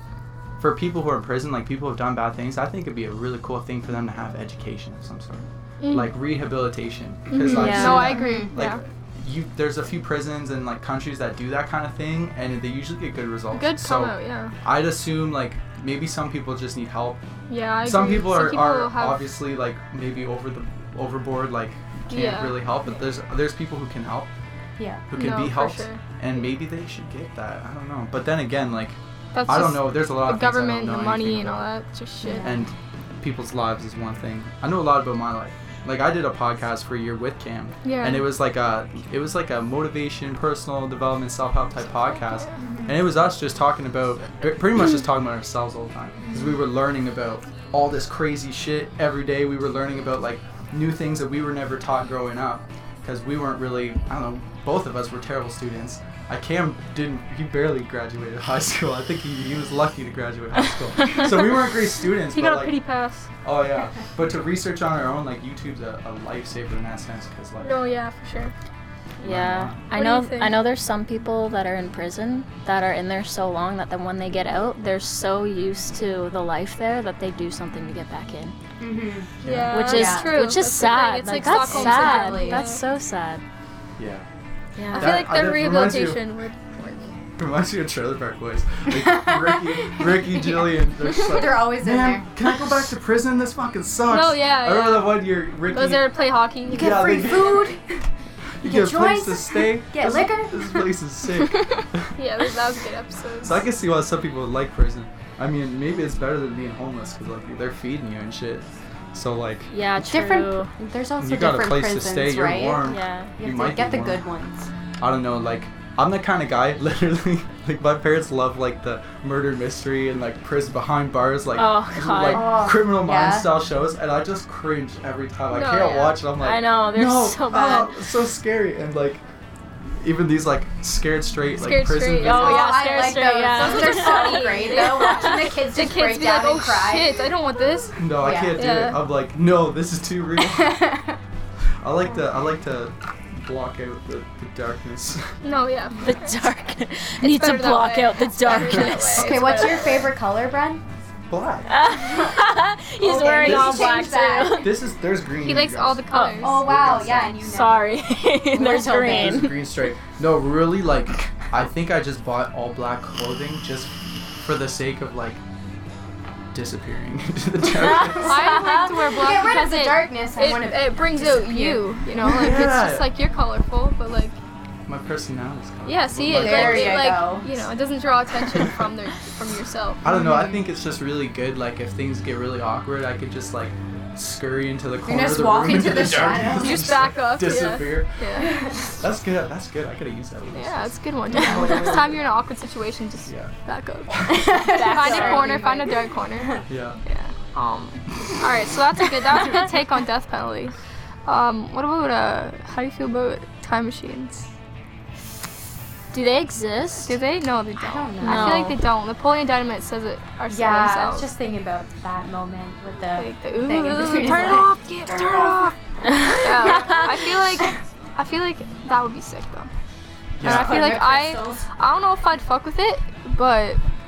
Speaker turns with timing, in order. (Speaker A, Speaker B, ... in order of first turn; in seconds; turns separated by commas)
Speaker A: 0.6-17.2, Speaker B: 5.8-6.1, Speaker C: 7.3-8.5, Speaker D: 7.4-8.1, Speaker B: 7.5-8.8, Speaker B: 13.5-14.5, Speaker B: 17.5-19.2, Speaker A: 17.8-24.3, Speaker B: 22.1-22.6, Speaker C: 24.8-25.0, Speaker A: 25.1-31.6, Speaker B: 25.1-26.0, Speaker B: 29.3-32.6, Speaker C: 32.2-32.7, Speaker A: 32.4-62.7, Speaker B: 37.8-38.3, Speaker C: 42.6-43.0, Speaker B: 62.3-63.3, Speaker A: 63.4-67.8, Speaker B: 67.6-68.5, Speaker D: 69.2-78.5, Speaker A: 69.2-69.8, Speaker B: 69.9-70.5, Speaker C: 78.8-79.3, Speaker A: 79.4-79.8, Speaker B: 79.4-82.8, Speaker D: 79.7-83.4, Speaker C: 79.8-80.5, Speaker C: 81.5-82.7, Speaker A: 84.0-84.2, Speaker D: 84.8-85.2, Speaker A: 84.9-86.3, Speaker B: 84.9-87.2, Speaker A: 87.4-96.1, Speaker C: 89.0-92.3, Speaker B: 94.1-97.1, Speaker C: 96.7-97.8, Speaker A: 96.7-97.7, Speaker A: 98.6-102.1, Speaker C: 98.6-100.9, Speaker B: 102.2-103.7, Speaker A: 103.4-109.7, Speaker D: 109.7-110.7, Speaker C: 110.0-114.7, Speaker A: 111.2-114.3, Speaker D: 112.8-113.3, Speaker A: 115.0-129.2, Speaker D: 121.5-122.6, Speaker C: 122.2-123.7, Speaker B: 125.5-126.2, Speaker D: 126.4-128.0, Speaker A: 130.0-132.7, Speaker B: 131.6-139.0, Speaker D: 132.2-135.5, Speaker C: 132.5-137.1, Speaker A: 138.0-140.9, Speaker C: 138.2-138.6, Speaker C: 140.5-141.1, Speaker A: 141.8-145.3, Speaker B: 145.4-146.1, Speaker D: 146.0-150.1, Speaker B: 147.2-150.0, Speaker C: 148.5-150.8, Speaker A: 151.3-151.7, Speaker D: 151.7-154.7, Speaker C: 152.0-152.3, Speaker C: 153.0-154.8, Speaker A: 153.3-156.0, Speaker B: 155.4-156.6, Speaker D: 156.1-156.6, Speaker C: 156.3-159.6, Speaker A: 156.6-157.4, Speaker D: 157.4-159.6, Speaker A: 159.0-165.4, Speaker A: 166.5-168.4, Speaker D: 167.7-168.9, Speaker B: 168.2-174.4, Speaker C: 169.1-171.9, Speaker A: 172.2-173.1, Speaker A: 174.9-177.1, Speaker B: 175.8-180.0, Speaker C: 176.2-177.5, Speaker A: 180.0-188.1, Speaker C: 180.0-180.6, Speaker C: 185.0-187.1, Speaker B: 186.6-188.5, Speaker C: 188.4-188.9, Speaker A: 188.9-192.3, Speaker B: 190.5-200.7, Speaker C: 191.4-191.6, Speaker A: 193.2-193.5, Speaker A: 194.1-194.4, Speaker C: 194.3-195.8, Speaker D: 194.6-195.8, Speaker A: 196.7-197.0, Speaker B: 201.2-204.5, Speaker D: 206.1-207.2, Speaker B: 207.0-211.3, Speaker C: 207.8-208.7, Speaker D: 208.2-208.8, Speaker C: 210.5-215.6, Speaker B: 213.2-215.7, Speaker D: 214.0-217.2, Speaker B: 216.3-219.7, Speaker A: 220.4-220.9, Speaker C: 220.4-221.6, Speaker B: 220.4-223.8